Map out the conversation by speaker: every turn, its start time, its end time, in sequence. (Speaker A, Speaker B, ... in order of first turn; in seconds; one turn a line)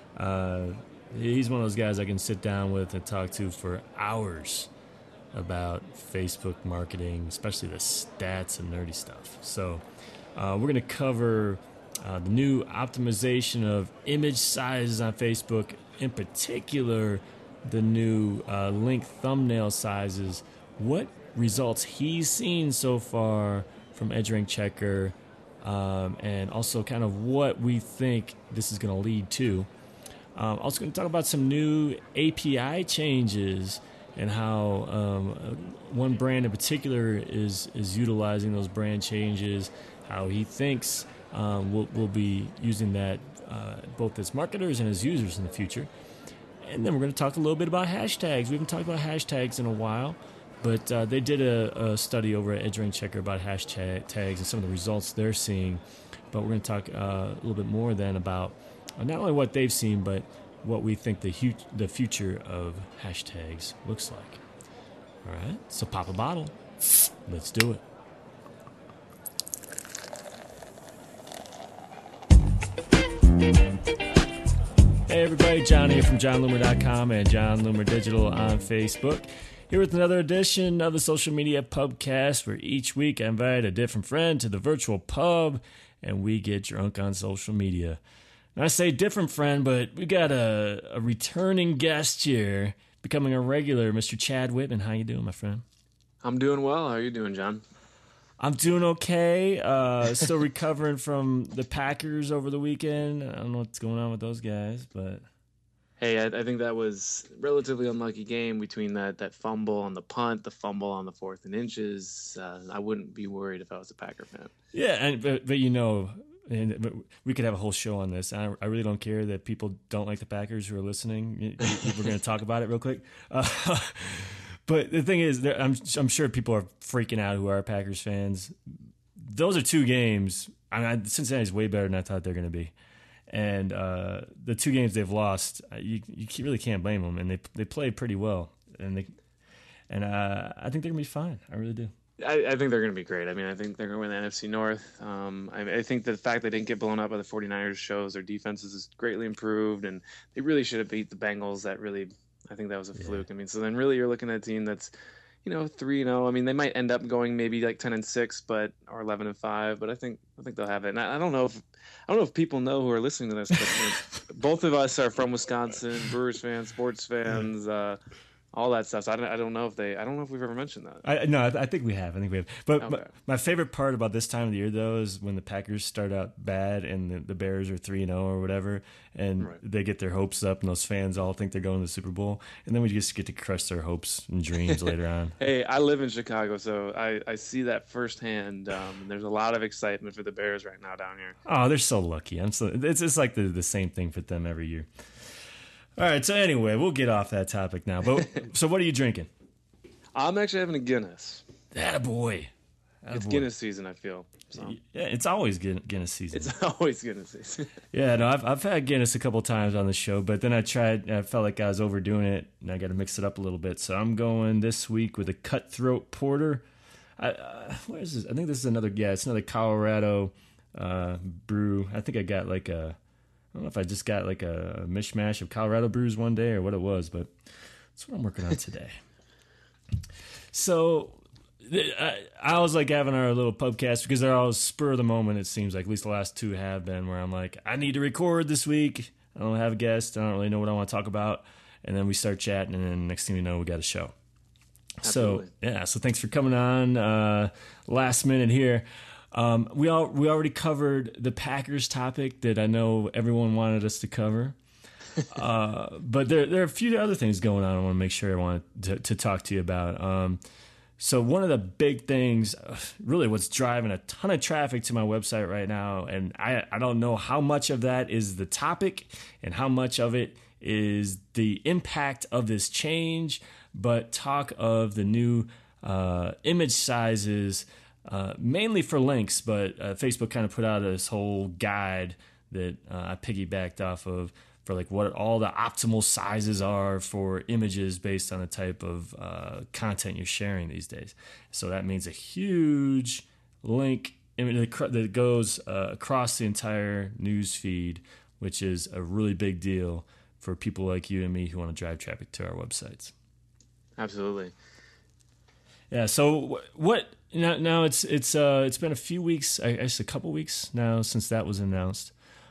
Speaker A: 0.2-4.7
Speaker A: 5.3-9.8
Speaker A: 10.4-29.7
Speaker A: 30.4-45.9
Speaker A: 46.6-64.4
Speaker A: 65.2-66.6
Speaker A: 67.3-67.8
Speaker A: 75.1-88.0
Speaker A: 88.6-95.7
Speaker B: 96.2-97.6
Speaker A: 98.4-105.2
Speaker B: 106.0-114.5
Speaker A: 114.7-132.7
Speaker A: 133.3-139.2
Speaker A: 139.9-141.9
Speaker B: 142.2-154.9
Speaker A: 152.9-153.2
Speaker B: 155.4-168.0
Speaker B: 168.5-171.0
Speaker A: 171.0-185.4
Speaker B: 172.8-173.1
Speaker B: 185.4-191.4
Speaker A: 191.4-194.9
Speaker A: 196.0-199.3
Speaker B: 200.2-201.5
Speaker A: 201.7-202.5
Speaker A: 203.0-203.5
Speaker B: 203.1-204.8
Speaker A: 204.6-206.5
Speaker B: 206.3-207.8
Speaker A: 207.9-216.7
Speaker A: 217.2-223.0
Speaker A: 223.5-227.3
Speaker A: 227.9-229.0
Speaker A: 230.5-244.1
Speaker A: 245.0-254.6
Speaker B: 245.0-245.5
Speaker A: 255.3-260.4
Speaker A: 261.0-303.1
Speaker B: 304.0-304.5
Speaker A: 305.9-312.1